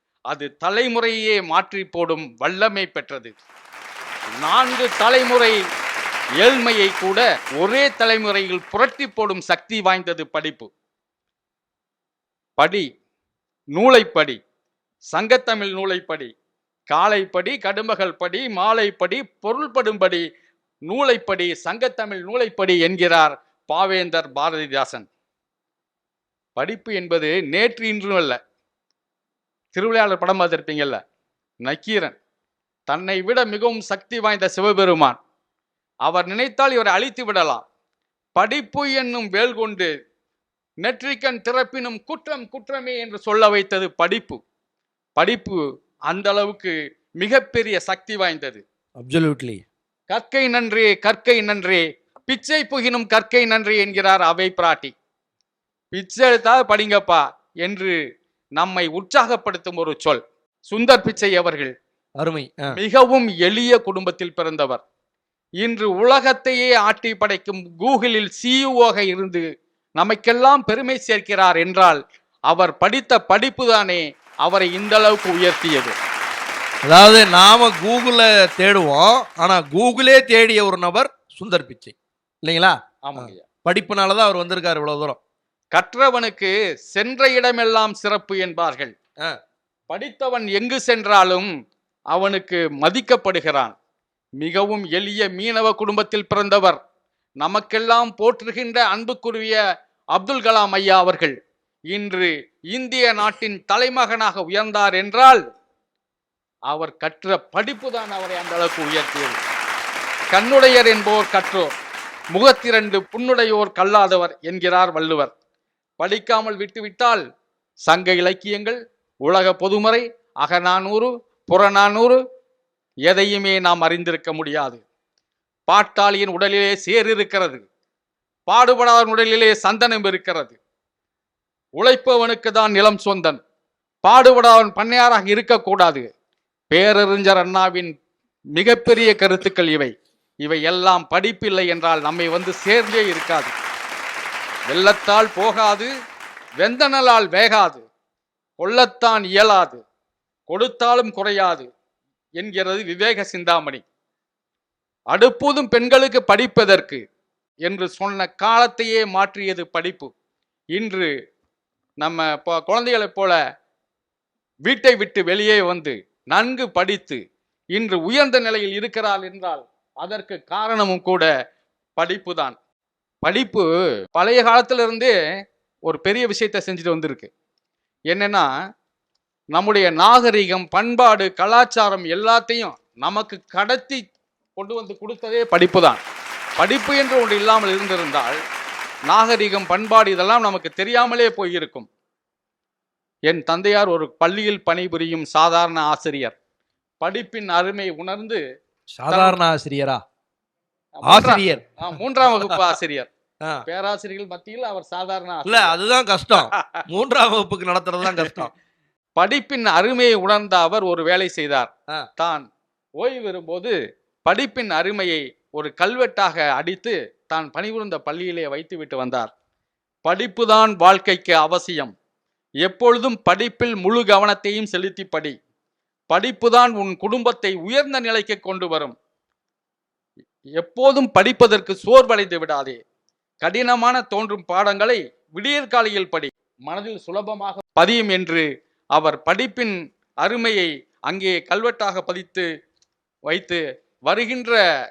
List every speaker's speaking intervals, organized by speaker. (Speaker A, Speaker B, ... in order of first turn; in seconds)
Speaker A: 0.3-3.3, 4.4-5.5, 6.4-10.7, 12.6-12.8, 13.7-14.4, 15.1-16.3, 16.9-20.2, 20.9-25.1, 26.6-28.4, 29.7-31.0, 31.6-32.1, 32.9-35.2, 36.0-37.6, 38.4-39.9, 40.8-44.4, 45.1-48.6, 50.1-54.9, 55.9-57.9, 58.5-61.7, 62.7-64.8, 65.6-69.4, 70.0-76.0, 83.0-83.4, 85.7-88.9, 89.9-91.5, 92.1-93.7, 94.4-96.8, 97.4-99.6, 100.1-101.3, 101.9-105.4, 106.7-109.4, 110.3-111.7, 112.3-115.3, 116.0-117.2, 117.8-122.2, 123.0-124.8, 125.7-127.6, 128.5-130.6, 131.8-133.4, 134.0-136.1, 136.7-137.9, 138.6-139.9, 140.4-143.5, 144.7-145.9, 146.6-147.8, 148.6-149.8, 150.5-151.7, 152.4-153.8, 155.1-157.0, 157.7-160.1, 160.7-161.1, 162.0-163.4, 164.6-167.2, 167.7-171.2, 172.0-172.6, 173.2-175.1, 175.8-177.3, 178.1-178.5, 179.5-184.0, 184.6-186.0, 186.6-188.3, 189.1-191.9, 193.3-196.3, 197.0-198.4, 199.1-199.4, 201.0-203.1, 203.7-205.7, 206.4-206.6, 209.2-212.4, 213.0-219.3, 220.0-221.9, 222.6-225.3, 226.1-228.9, 230.6-232.8, 233.4-242.4, 243.3-244.6
Speaker B: 49.0-49.6, 62.2-62.8, 76.8-85.2, 198.9-200.0, 201.0-201.8, 202.4-202.7, 205.4-208.5